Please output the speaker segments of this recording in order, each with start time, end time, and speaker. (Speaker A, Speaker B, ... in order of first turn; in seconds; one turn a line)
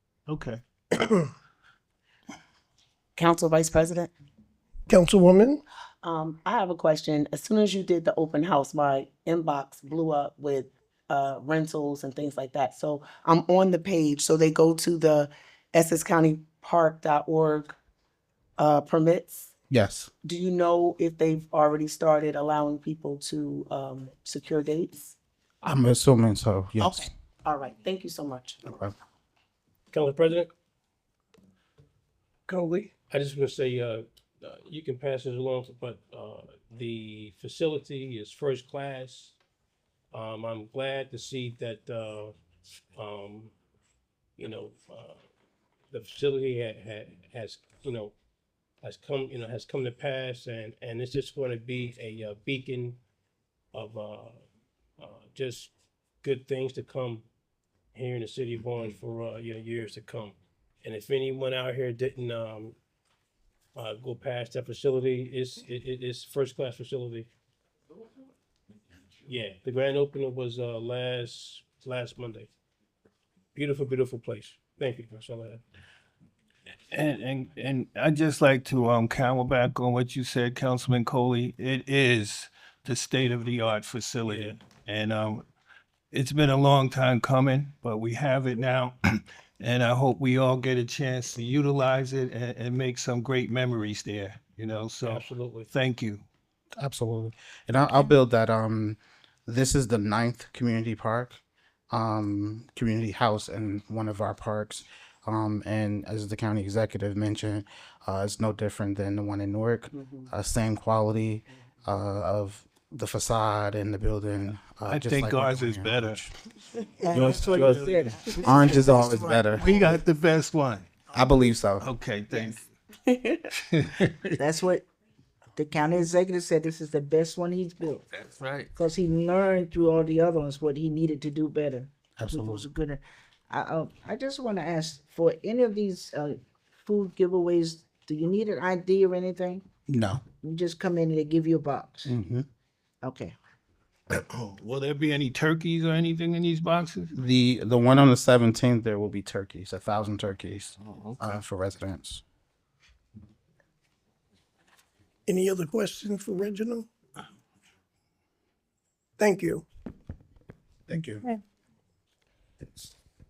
Speaker A: 0.3-0.6
Speaker B: 3.1-4.1
Speaker C: 4.9-5.6
Speaker B: 6.0-17.7
Speaker B: 18.6-19.5
Speaker D: 19.7-20.1
Speaker B: 20.2-25.1
Speaker D: 25.6-27.1
Speaker B: 26.8-28.6
Speaker D: 28.6-28.9
Speaker E: 29.9-30.5
Speaker C: 32.5-32.9
Speaker E: 33.1-39.4
Speaker E: 40.1-42.3
Speaker E: 43.0-43.5
Speaker E: 44.4-45.2
Speaker E: 45.9-48.1
Speaker E: 48.8-53.0
Speaker E: 53.7-54.4
Speaker E: 55.0-55.7
Speaker E: 56.2-57.2
Speaker E: 57.9-62.8
Speaker E: 63.7-67.3
Speaker E: 69.2-72.5
Speaker E: 73.5-75.6
Speaker A: 76.9-85.4
Speaker E: 84.2-84.6
Speaker A: 86.1-96.2
Speaker E: 95.0-95.7
Speaker D: 96.8-101.4
Speaker D: 101.9-116.3
Speaker A: 114.9-116.2
Speaker F: 117.0-119.2
Speaker D: 117.1-119.7
Speaker A: 119.5-120.9
Speaker D: 121.1-121.8
Speaker A: 121.8-122.7
Speaker A: 123.5-124.3
Speaker F: 124.4-124.8
Speaker F: 125.5-128.1
Speaker A: 128.1-128.7
Speaker F: 128.7-139.6
Speaker D: 132.2-132.6
Speaker D: 139.9-140.2
Speaker F: 140.4-142.1
Speaker D: 142.1-142.4
Speaker F: 143.0-143.3
Speaker A: 144.2-147.1
Speaker D: 147.1-152.2
Speaker C: 155.3-156.9
Speaker C: 159.2-159.6
Speaker D: 160.9-161.2